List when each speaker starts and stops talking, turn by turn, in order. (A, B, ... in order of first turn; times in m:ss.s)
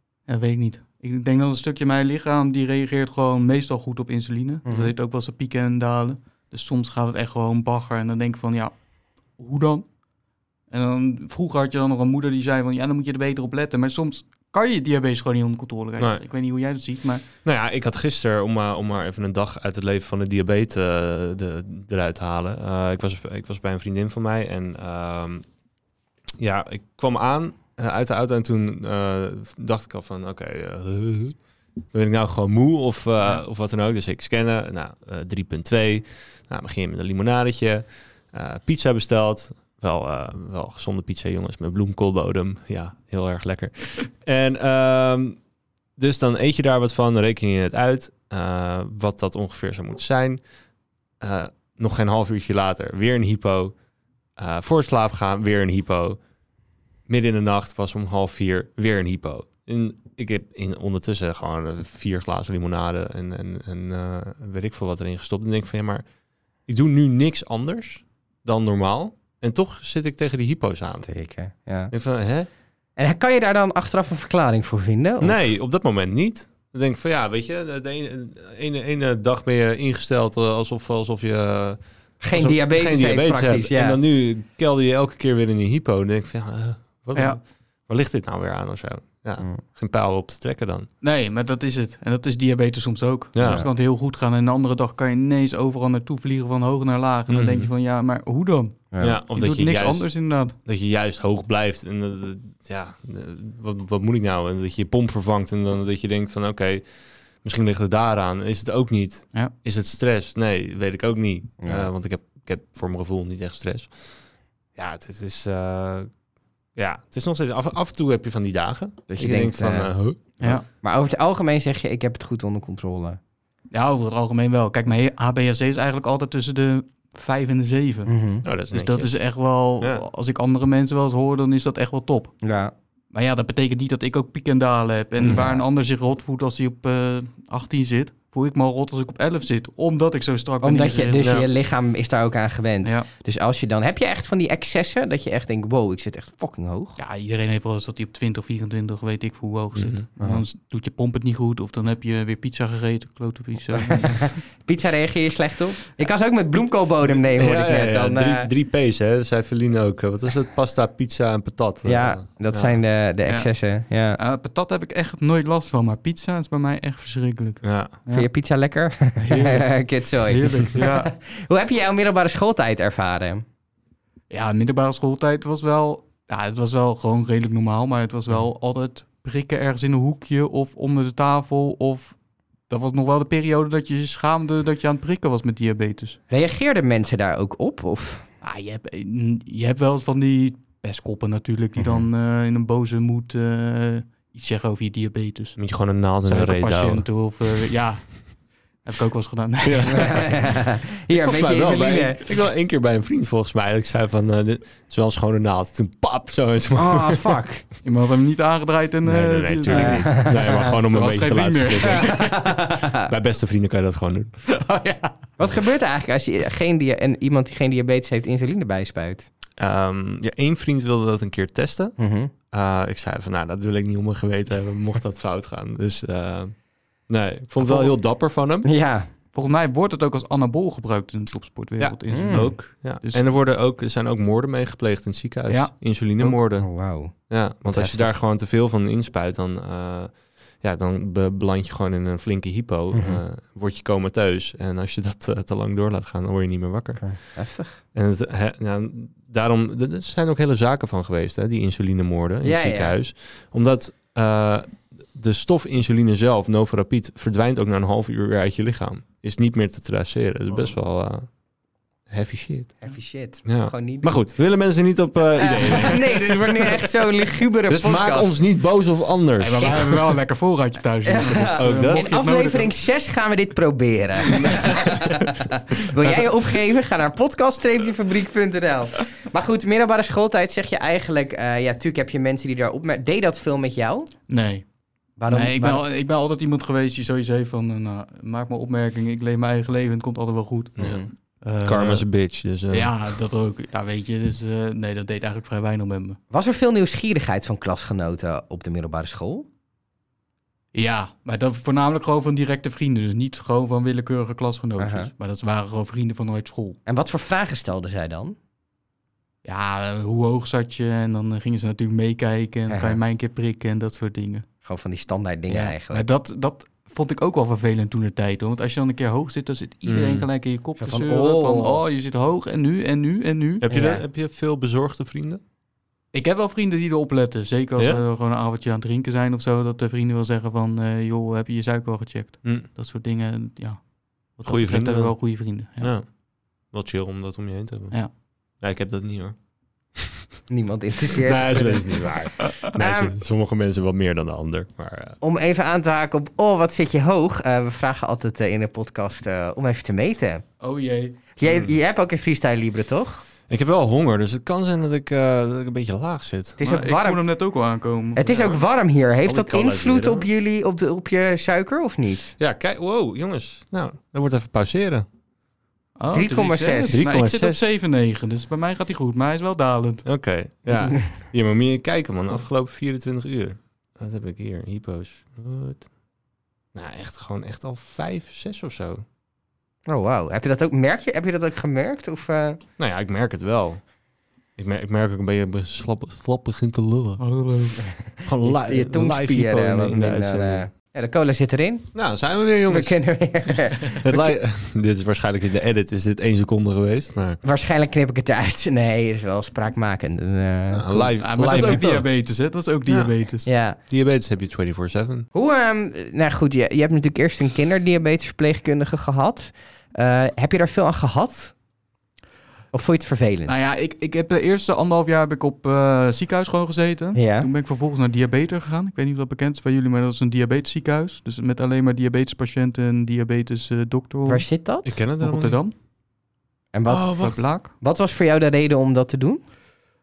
0:00.3-0:08.8 A
0:04.7-0:04.9 B
0:09.4-0:09.9 A
0:10.7-0:17.2 A
0:16.0-0:16.2 C
0:17.4-0:25.4 C
0:26.4-0:31.4 C
0:31.9-0:45.4 C
0:46.0-0:50.4 C
0:51.2-0:53.7 C
0:54.4-0:56.2 C
0:57.1-1:06.0 C
1:06.7-1:11.1 C
1:11.0-1:11.9 B
1:11.9-1:12.5 C
1:13.0-1:15.4 B
1:15.2-1:30.9 C
1:22.2-1:24.0 B
1:31.0-1:40.6 A
1:33.4-1:33.7 C
1:33.4-1:33.7 B
1:37.3-1:37.7 C
1:38.9-1:39.2 B
1:39.0-1:40.1 C
1:40.6-1:46.8 C
1:47.4-1:54.2 C
1:51.6-1:51.9 B
1:54.8-1:56.1 C
1:56.8-2:00.6 C
1:59.1-1:59.9 B
2:00.4-2:00.6 A
2:00.8-2:03.2 B
2:03.7-2:08.1 A
2:08.1-2:08.4 B
2:08.4-2:09.2 C
2:08.7-2:12.3 A
2:09.8-2:10.0 C
2:12.4-2:12.7 B
2:13.1-2:21.3 A
2:15.2-2:15.6 B
2:20.6-2:27.0 B
2:21.2-2:21.5 C
2:27.0-2:34.3 A
2:29.8-2:30.0 C
2:30.2-2:30.4 B
2:33.7-2:38.5 B
2:37.4-2:42.8 C
2:41.8-2:44.2 B
2:43.3-2:43.5 A
2:44.2-2:48.3 A
2:47.6-2:48.0 C
2:48.1-2:53.4 B
2:49.2-2:49.7 A
2:50.2-2:51.1 A
2:54.3-3:02.2 A
3:02.7-3:06.2 A
3:06.3-3:08.3 B
3:08.4-3:15.6 A
3:15.6-3:17.1 C
3:16.2-3:18.2 A
3:18.8-3:20.2 A
3:19.6-3:20.4 C
3:19.9-3:22.2 B
3:21.1-3:27.4 C
3:26.8-3:27.6 B
3:27.8-3:32.4 A
3:29.1-3:32.4 C
3:29.7-3:30.8 B
3:32.0-3:33.1 B
3:32.9-3:34.3 C
3:34.5-3:35.1 A
3:35.4-3:39.3 B
3:39.6-3:42.0 C
3:42.0-3:42.3 B
3:42.5-3:46.6 C
3:47.1-3:48.7 C
3:47.6-3:47.9 A
3:48.6-3:49.1 B
3:49.3-3:53.2 A
3:51.8-3:56.7 C
3:52.1-3:52.5 B
3:55.5-3:56.3 A
3:56.6-3:57.1 B
3:57.3-4:07.0 C
3:57.7-3:58.1 B
4:02.9-4:03.2 B
4:07.0-4:07.8 B
4:07.9-4:21.3 C
4:12.4-4:13.0 B
4:22.1-4:22.8 C
4:22.8-4:24.2 B
4:23.4-4:26.4 C
4:25.4-4:28.3 B
4:25.7-4:26.0 A
4:27.7-4:30.1 C
4:29.4-4:32.7 A
4:31.0-4:44.1 B
4:31.6-4:32.1 C
4:34.3-4:34.9 A
4:34.3-4:35.0 C
4:44.3-4:44.6 A
4:45.2-4:45.8 B
4:45.3-4:52.0 A
4:50.8-4:51.1 B
4:51.6-4:53.0 C
4:52.7-4:56.2 A
4:56.3-4:59.5 B
5:00.7-5:06.8 A
5:04.8-5:05.1 B
5:06.9-5:08.4 B
5:09.4-5:14.4 A
5:12.7-5:13.0 B
5:14.6-5:16.1 B
5:15.5-5:23.6 A
5:19.8-5:20.3 C
5:20.8-5:21.8 B
5:23.6-5:25.4 C
5:23.7-5:24.0 B
5:26.1-5:35.9 A
5:27.8-5:28.0 C
5:34.5-5:35.2 C
5:35.8-5:36.1 C
5:36.7-5:38.0 C
5:38.6-5:39.4 C
5:40.0-5:40.2 C
5:40.5-5:43.2 B
5:41.1-5:45.2 C
5:45.2-5:50.4 B
5:50.6-5:51.2 A
5:51.4-5:53.2 B
5:51.4-5:51.8 C
5:53.5-5:56.6 C
5:56.6-5:57.2 B
5:56.6-5:58.6 A
5:58.2-6:02.3 B
5:59.2-6:00.3 C
6:02.4-6:05.1 C
6:06.0-6:10.0 A
6:06.1-6:07.0 B
6:06.9-6:07.7 C
6:10.0-6:15.9 C
6:16.7-6:19.0 C
6:19.9-6:22.6 B
6:22.8-6:23.8 C
6:24.6-6:27.2 C
6:27.2-6:27.8 A
6:28.2-6:30.7 C
6:28.4-6:31.9 B
6:31.9-6:33.0 C
6:32.7-6:34.3 B
6:34.0-6:37.4 C
6:37.4-6:41.8 B
6:40.7-6:42.1 C
6:41.2-6:43.5 A
6:43.5-6:43.8 B
6:43.9-6:45.3 C
6:45.3-6:51.5 B
6:52.7-6:53.6 B
6:53.5-7:04.5 A
6:57.2-6:57.5 B
7:04.3-7:05.0 B
7:04.9-7:05.6 C
7:05.2-7:05.7 A
7:06.7-7:09.4 B
7:06.9-7:07.4 C
7:07.2-7:07.7 A